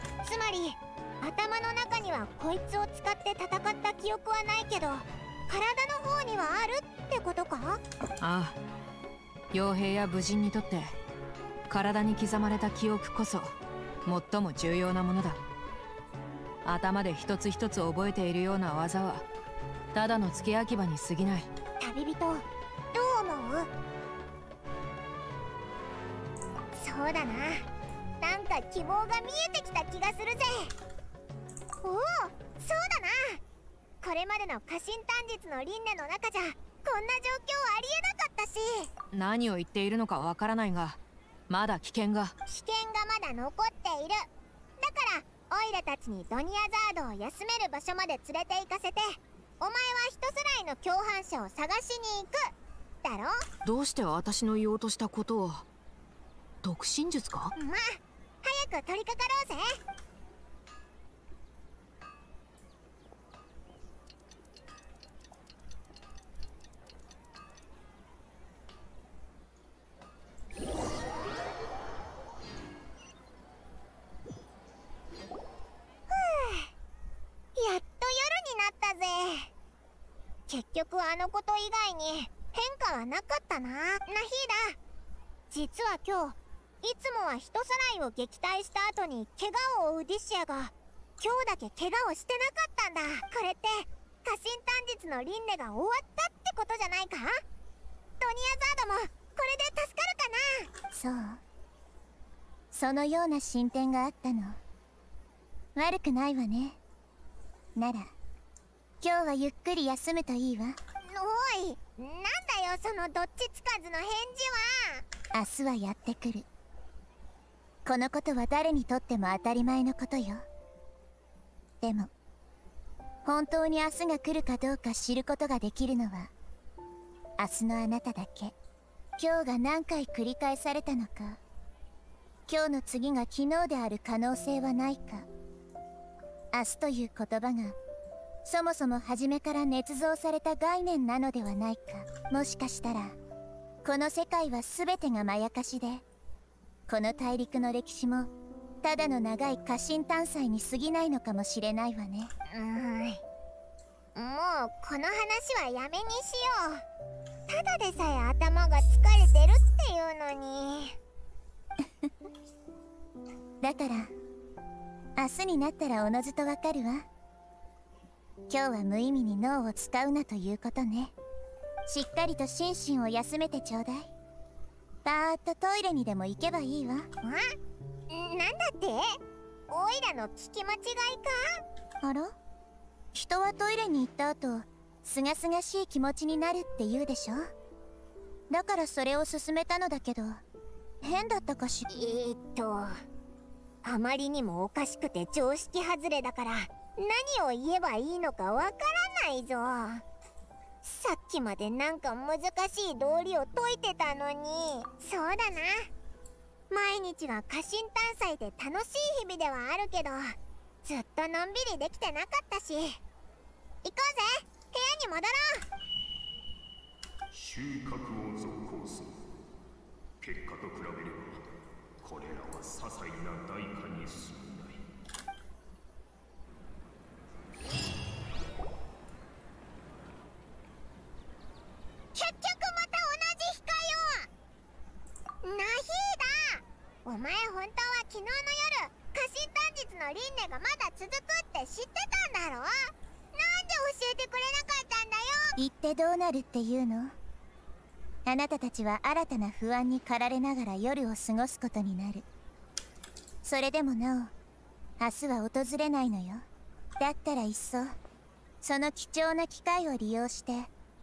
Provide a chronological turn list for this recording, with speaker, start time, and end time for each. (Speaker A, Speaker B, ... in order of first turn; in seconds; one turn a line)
Speaker A: 0.2-7.8
Speaker B: 8.2-8.6
Speaker B: 9.5-10.9
Speaker B: 11.7-13.5
Speaker B: 14.1-15.4
Speaker B: 16.6-19.2
Speaker B: 19.9-21.5
Speaker A: 21.8-23.7
Speaker A: 26.7-27.6
Speaker A: 28.2-30.7
Speaker A: 31.8-33.4
Speaker A: 34.0-38.9
Speaker B: 39.1-42.3
Speaker A: 42.5-44.3
Speaker A: 44.8-52.5
Speaker A: 53.0-53.4
Speaker B: 53.6-55.6
Speaker B: 56.6-57.5
Speaker A: 57.6-59.8
Speaker A: 76.1-76.7
Speaker A: 77.5-79.5
Speaker A: 80.5-84.8
Speaker A: 85.5-97.4
Speaker A: 98.2-100.7
Speaker C: 100.9-101.4
Speaker C: 102.7-104.6
Speaker C: 105.7-106.8
Speaker C: 107.7-108.1
Speaker C: 109.0-110.8
Speaker A: 111.0-115.0
Speaker C: 115.3-116.5
Speaker C: 117.8-120.4
Speaker C: 121.8-122.1
Speaker C: 123.2-126.3
Speaker C: 127.4-128.5
Speaker C: 129.2-131.4
Speaker C: 132.5-135.3
Speaker C: 136.5-137.8
Speaker C: 138.4-143.2
Speaker C: 143.8-146.0
Speaker C: 146.9-148.3
Speaker C: 148.8-152.3
Speaker A: 152.5-153.2
Speaker A: 154.1-156.8
Speaker A: 157.5-161.0
Speaker C: 161.8-162.1
Speaker C: 163.6-164.1
Speaker C: 165.2-167.1
Speaker C: 168.5-171.1
Speaker C: 171.9-174.1
Speaker C: 175.0-177.1
Speaker A: 177.2-177.5
Speaker A: 178.1-179.1
Speaker A: 179.7-181.6
Speaker C: 182.0-182.3
Speaker C: 183.1-187.5
Speaker C: 188.5-190.4
Speaker C: 191.0-191.9
Speaker A: 191.9-193.0
Speaker A: 193.8-200.0
Speaker A: 200.8-205.9
Speaker A: 206.7-213.0
Speaker A: 213.8-215.6
Speaker D: 217.3-219.2
Speaker D: 220.2-221.4
Speaker D: 222.0-224.8
Speaker A: 232.1-234.3
Speaker A: 235.4-245.5
Speaker C: 245.6-247.2
Speaker C: 248.2-252.2
Speaker C: 253.4-254.3
Speaker C: 255.0-256.4
Speaker C: 257.0-257.9
Speaker C: 258.6-260.7